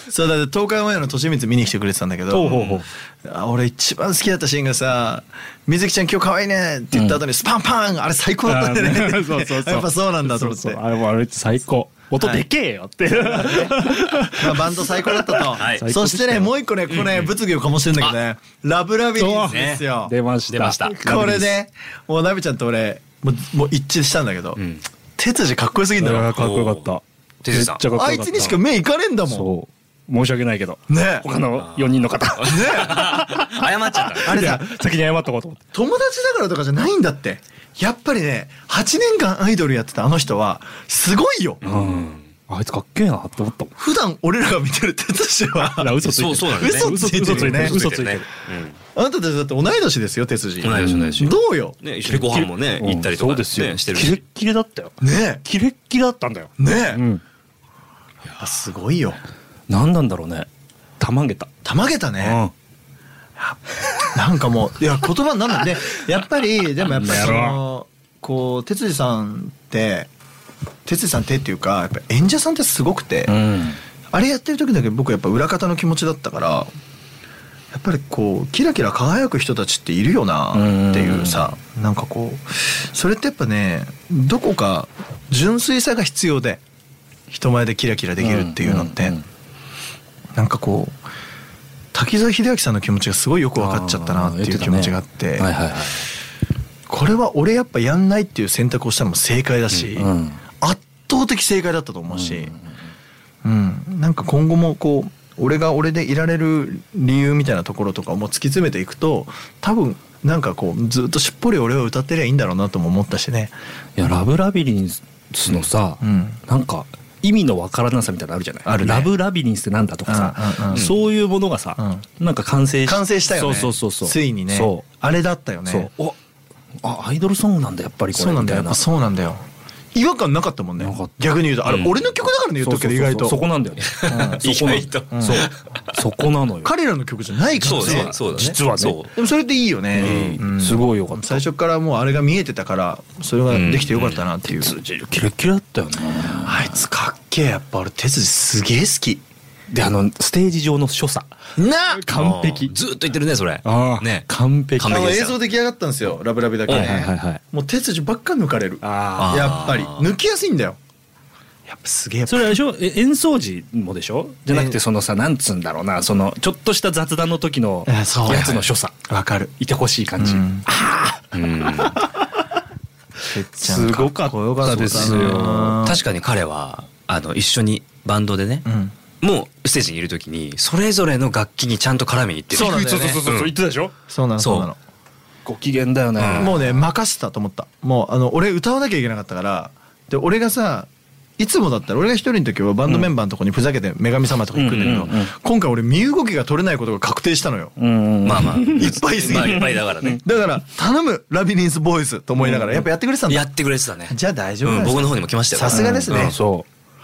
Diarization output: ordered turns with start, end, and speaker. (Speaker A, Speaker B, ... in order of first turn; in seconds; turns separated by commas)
Speaker A: 0.1-2.6, Speaker B: 2.3-2.9, Speaker C: 2.4-2.8, Speaker A: 3.2-10.8, Speaker B: 6.9-7.2, Speaker B: 8.5-16.5, Speaker A: 12.2-12.5, Speaker A: 13.2-20.1, Speaker C: 15.6-15.8, Speaker C: 16.9-17.3, Speaker B: 19.2-21.6, Speaker C: 19.5-19.9, Speaker C: 20.5-21.0, Speaker A: 21.0-24.6, Speaker C: 24.6-24.9, Speaker A: 25.2-26.4, Speaker B: 26.0-28.6, Speaker C: 26.3-26.9, Speaker C: 27.4-27.8, Speaker A: 27.9-29.5, Speaker B: 29.3-35.6, Speaker A: 30.9-31.3, Speaker C: 31.9-34.4, Speaker A: 32.4-33.2, Speaker A: 34.2-34.7, Speaker A: 35.7-41.6, Speaker C: 41.6-42.2, Speaker B: 41.6-43.7, Speaker A: 43.8-46.0, Speaker B: 45.6-48.3, Speaker C: 46.0-48.8, Speaker A: 46.5-47.8, Speaker A: 49.0-51.8, Speaker C: 50.6-54.2, Speaker B: 50.7-51.2, Speaker B: 52.0-57.2, Speaker A: 55.0-55.4, Speaker A: 56.6-57.0, Speaker A: 58.3-59.2, Speaker B: 59.7-60.5, Speaker B: 61.0-61.5, Speaker A: 61.6-62.4, Speaker B: 62.2-62.5, Speaker A: 64.1-70.1, Speaker B: 66.9-67.6, Speaker A: 70.9-73.4, Speaker B: 73.3-73.8, Speaker A: 74.1-76.7, Speaker A: 77.7-86.6, Speaker B: 80.5-81.5, Speaker A: 87.3-89.2, Speaker B: 88.2-89.2, Speaker A: 90.4-91.0, Speaker A: 91.9-95.5, Speaker B: 93.6-96.1, Speaker A: 96.9-102.5, Speaker B: 100.0-100.4, Speaker B: 102.1-102.8, Speaker A: 103.4-113.5, Speaker B: 114.0-124.8, Speaker A: 116.0-116.4, Speaker A: 118.7-119.1, Speaker A: 120.1-120.9, Speaker A: 121.8-122.0, Speaker A: 122.9-125.9, Speaker B: 125.7-126.2, Speaker B: 126.8-128.8, Speaker A: 128.2-129.4, Speaker A: 129.9-133.5, Speaker B: 130.8-131.2, Speaker C: 131.7-132.1, Speaker B: 132.6-136.7, Speaker C: 133.8-135.8, Speaker A: 134.1-134.4, Speaker A: 135.1-135.5, Speaker A: 136.6-138.6, Speaker B: 137.6-139.0, Speaker C: 137.6-139.1, Speaker A: 139.1-144.8, Speaker C: 139.9-140.4, Speaker B: 140.0-141.4, Speaker C: 143.5-144.2, Speaker B: 144.5-146.8, Speaker A: 146.4-149.2, Speaker B: 149.7-151.3, Speaker A: 151.6-152.1, Speaker B: 151.9-152.8, Speaker C: 152.2-154.3, Speaker B: 153.6-155.1, Speaker C: 154.8-155.4, Speaker A: 154.8-160.8, Speaker C: 156.7-157.0, Speaker B: 156.7-157.4, Speaker B: 158.8-159.6, Speaker C: 159.2-160.1, Speaker A: 161.7-162.6, Speaker B: 162.3-169.0, Speaker A: 164.5-164.8, Speaker A: 167.9-168.6, Speaker C: 168.3-168.7, Speaker A: 169.1-169.5, Speaker B: 169.6-172.0, Speaker A: 170.2-170.7, Speaker C: 171.3-172.0, Speaker A: 173.2-176.0, Speaker B: 173.6-175.8, Speaker C: 174.9-178.7, Speaker A: 178.7-178.9, Speaker C: 179.2-183.5, Speaker A: 182.5-183.2, Speaker B: 182.5-183.9, Speaker A: 184.1-184.8, Speaker C: 184.4-184.7, Speaker B: 185.5-186.8, Speaker C: 186.2-186.6, Speaker A: 186.4-197.8, Speaker B: 194.6-195.3, Speaker C: 194.7-195.1, Speaker B: 197.8-200.2, Speaker C: 198.2-200.3, Speaker A: 198.7-203.5, Speaker C: 203.3-206.4, Speaker A: 204.1-206.4, Speaker B: 205.7-206.7